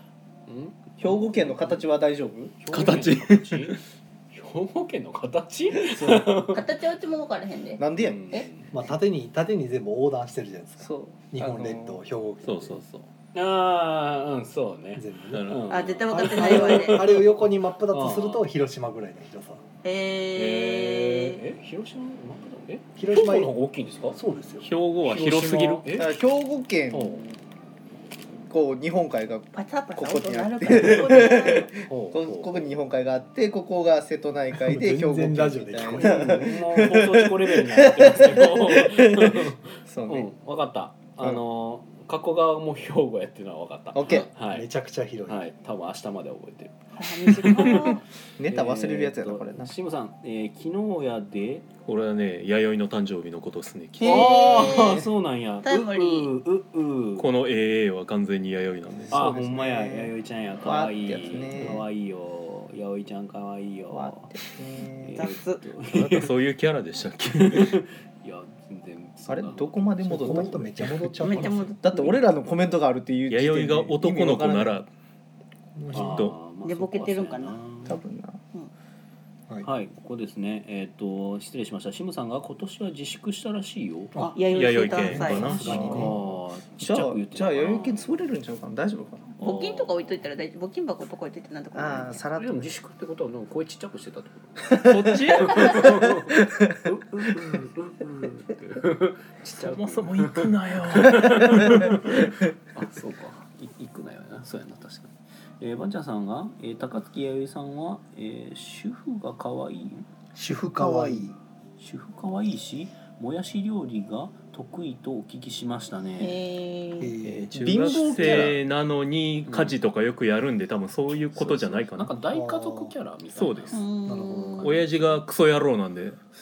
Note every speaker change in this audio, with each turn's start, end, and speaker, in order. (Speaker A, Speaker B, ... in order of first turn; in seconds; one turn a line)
Speaker A: 0.5-1.8
Speaker B: 1.0-2.6
Speaker A: 2.6-6.7
Speaker C: 2.7-3.8
Speaker B: 5.8-6.3
Speaker D: 6.5-8.5
Speaker B: 7.8-8.2
Speaker A: 8.0-8.8
Speaker E: 8.7-12.8
Speaker B: 10.8-12.0
Speaker C: 12.4-13.1
Speaker A: 13.3-18.5
Speaker E: 14.9-15.5
Speaker C: 15.3-15.7
Speaker D: 15.7-17.1
Speaker E: 16.1-19.6
Speaker D: 19.8-21.4
Speaker A: 20.3-24.2
Speaker E: 23.0-23.5
Speaker E: 24.1-24.7
Speaker C: 24.6-26.2
Speaker A: 25.0-26.2
Speaker B: 26.0-27.3
Speaker A: 26.9-27.3
Speaker B: 28.5-40.3
Speaker D: 29.5-31.7
Speaker A: 30.7-32.7
Speaker E: 34.6-36.5
Speaker A: 36.0-44.7
Speaker B: 43.9-44.3
Speaker E: 44.5-45.4
Speaker A: 45.3-51.7
Speaker D: 47.0-48.0
Speaker C: 47.3-48.0
Speaker B: 48.4-49.7
Speaker C: 51.9-54.2
Speaker B: 54.0-55.1
Speaker D: 54.0-55.1
Speaker A: 54.0-57.3
Speaker D: 55.6-56.3
Speaker C: 57.2-59.2
Speaker B: 59.1-60.1
Speaker A: 59.1-64.4
Speaker B: 60.6-61.9
Speaker E: 61.6-61.8
Speaker B: 63.9-65.3
Speaker A: 65.0-66.3
Speaker D: 65.1-65.6
Speaker C: 65.8-67.8
Speaker A: 67.3-71.6
Speaker B: 69.3-70.8
Speaker E: 70.0-71.7
Speaker D: 71.2-72.2
Speaker B: 71.8-74.8
Speaker C: 73.3-74.9
Speaker E: 75.8-76.3
Speaker A: 75.9-78.0
Speaker C: 75.9-76.4
Speaker D: 76.6-77.6
Speaker B: 77.9-78.4
Speaker A: 79.6-84.1
Speaker E: 84.1-86.2
Speaker D: 84.2-85.8
Speaker C: 84.5-86.0
Speaker A: 85.3-88.1
Speaker B: 85.5-86.2
Speaker B: 86.8-89.3
Speaker A: 89.4-90.2
Speaker D: 89.4-92.2
Speaker B: 91.7-92.7
Speaker A: 92.3-110.1
Speaker B: 94.7-95.0
Speaker C: 94.8-96.0
Speaker B: 95.5-96.8
Speaker C: 99.5-102.0
Speaker E: 110.4-111.4
Speaker B: 110.5-111.3
Speaker A: 111.8-116.4
Speaker D: 116.2-117.2
Speaker E: 117.0-118.5
Speaker C: 117.3-122.1
Speaker B: 117.6-118.6
Speaker A: 119.5-119.8
Speaker A: 121.3-123.9
Speaker E: 122.3-123.0
Speaker C: 123.3-123.8
Speaker D: 123.7-124.8
Speaker E: 124.0-124.9
Speaker A: 124.4-125.0
Speaker C: 124.6-126.2